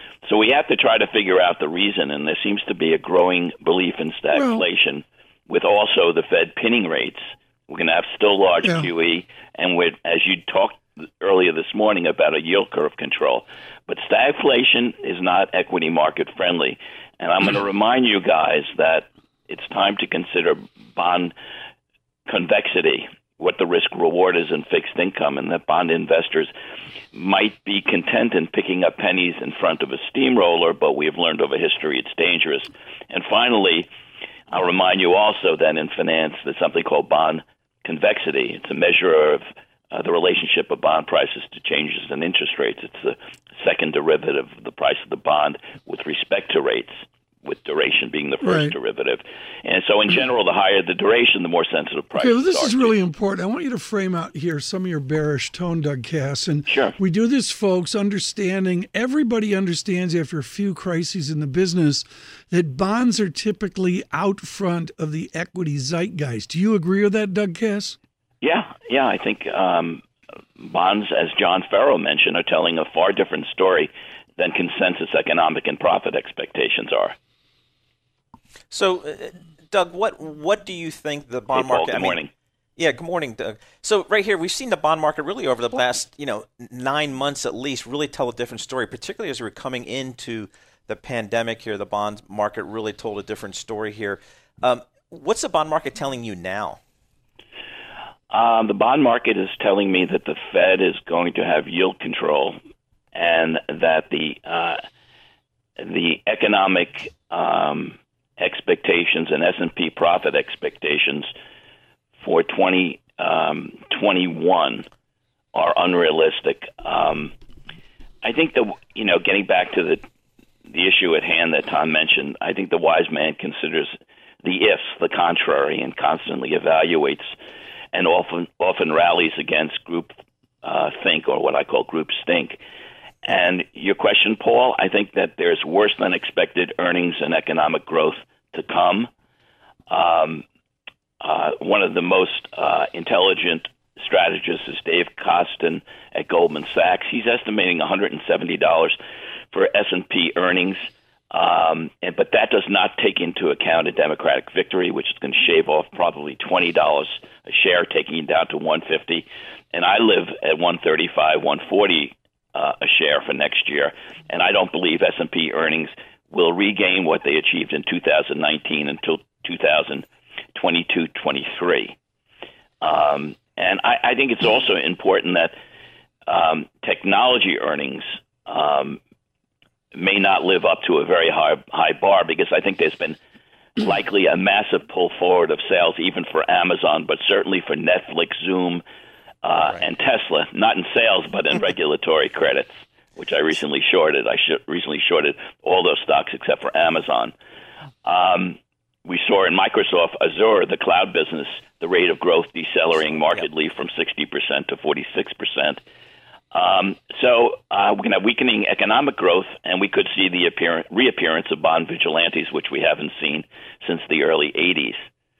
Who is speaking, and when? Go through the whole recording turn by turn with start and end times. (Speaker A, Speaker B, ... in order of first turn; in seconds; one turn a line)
Speaker A: 0.2-21.3
Speaker B: 4.3-4.6
Speaker B: 8.6-8.9
Speaker A: 22.3-26.5
Speaker A: 27.1-33.9
Speaker A: 34.5-53.0
Speaker B: 48.4-48.8
Speaker B: 52.1-68.0
Speaker A: 56.7-57.0
Speaker A: 68.4-70.0
Speaker A: 70.6-77.2
Speaker C: 78.7-82.2
Speaker A: 81.5-82.3
Speaker C: 82.8-96.8
Speaker A: 98.3-102.6
Speaker A: 103.1-104.8
Speaker A: 105.8-111.3
Speaker A: 112.2-114.9
Speaker A: 115.5-117.3
Speaker A: 118.2-120.0
Speaker A: 120.7-127.3
Speaker A: 127.9-132.6
Speaker A: 133.2-139.1
Speaker A: 139.9-140.4
Speaker A: 141.2-149.0
Speaker A: 149.5-172.0
Speaker A: 172.8-175.6
Speaker A: 176.3-179.0
Speaker A: 179.9-183.2
Speaker A: 183.8-188.8
Speaker A: 189.4-197.3
Speaker A: 198.0-205.8
Speaker A: 206.5-215.0